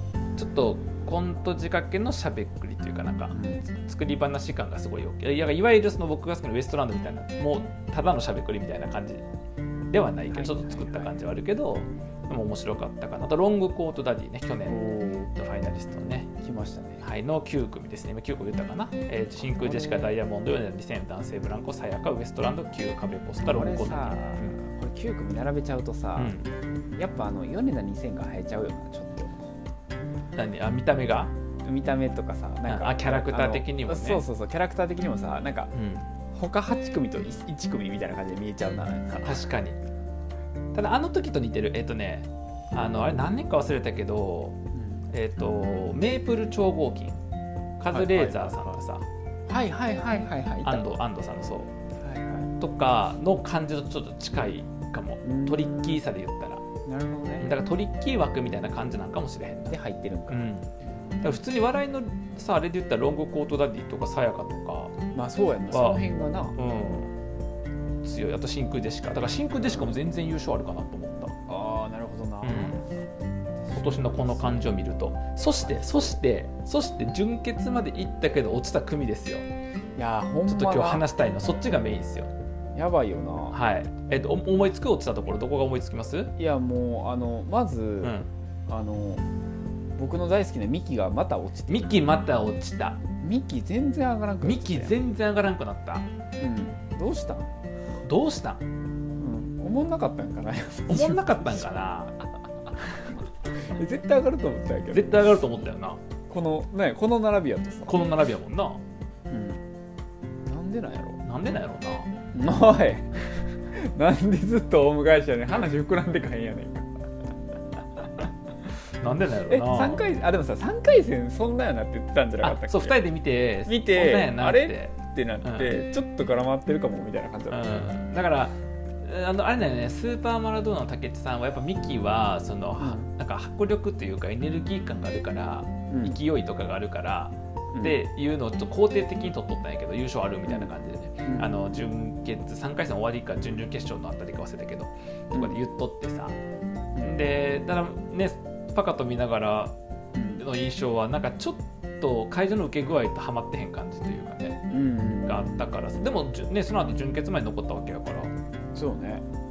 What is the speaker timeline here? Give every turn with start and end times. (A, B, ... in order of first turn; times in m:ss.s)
0:00.4-0:09.2 A
0:03.3-0:03.7 B
0:09.9-0:16.3 A
0:10.2-0:11.1 B
0:14.7-0:15.3 B
0:16.4-0:17.0 B
0:17.0-0:24.6 A
0:19.4-0:20.2 B
0:23.4-0:26.4 B
0:26.2-0:26.5 A
0:27.0-0:29.4 B
0:30.4-0:31.3 A
0:31.6-0:35.7 B
0:32.7-0:34.3 A
0:35.7-0:36.1 A
0:36.3-0:39.5 B
0:39.2-0:39.8 A
0:40.7-0:44.6 A
0:44.7-0:45.1 B
0:45.1-0:47.2 A
0:47.8-0:49.1 A
0:47.9-0:48.8 B
0:49.5-0:50.8 B
0:50.6-0:51.7 A
0:52.0-0:52.5 B
0:52.6-0:56.6 A
0:55.2-0:56.0 B
0:56.9-0:57.5 B
0:57.4-1:05.0 A
0:59.7-1:00.5 B
1:05.1-1:06.6 B
1:05.7-1:07.1 A
1:08.0-1:11.4 A
1:09.7-1:10.0 B
1:11.5-1:12.9 B
1:12.4-1:12.8 A
1:13.6-1:14.8 B
1:13.8-1:19.5 A
1:15.6-1:16.2 B
1:17.0-1:17.2 B
1:20.0-1:21.0 B
1:20.5-1:22.3 A
1:22.7-1:23.6 B
1:23.5-1:26.3 A
1:26.4-1:28.2 B
1:28.0-1:28.3 A
1:28.7-1:29.2 B
1:30.0-1:32.0 B
1:31.7-1:33.0 A
1:33.2-1:35.0 B
1:34.4-1:36.1 A
1:36.4-1:37.5 B
1:38.0-1:38.6 A
1:39.2-1:41.7 B
1:40.9-1:42.2 A
1:42.9-1:43.1 A
1:43.6-1:45.1 B
1:44.9-1:46.0 A
1:46.3-1:48.0 B
1:47.9-1:48.8 A
1:49.3-1:49.6 B
1:50.5-1:51.2 B
1:51.2-1:52.1 A
1:52.3-1:53.2 B
1:53.7-1:56.9 B
1:58.2-2:00.0 A
1:59.5-2:03.0 B
2:02.4-2:05.7 A
2:03.6-2:07.6 B
2:07.5-2:26.4 A
2:12.8-2:13.1 B
2:15.9-2:16.2 B
2:21.2-2:21.5 B
2:25.3-2:25.6 B
2:27.0-2:29.7 A
2:30.2-2:30.4 B
2:30.4-2:34.6 A
2:34.7-2:35.8 B
2:35.3-2:38.3 A
2:38.8-2:39.2 B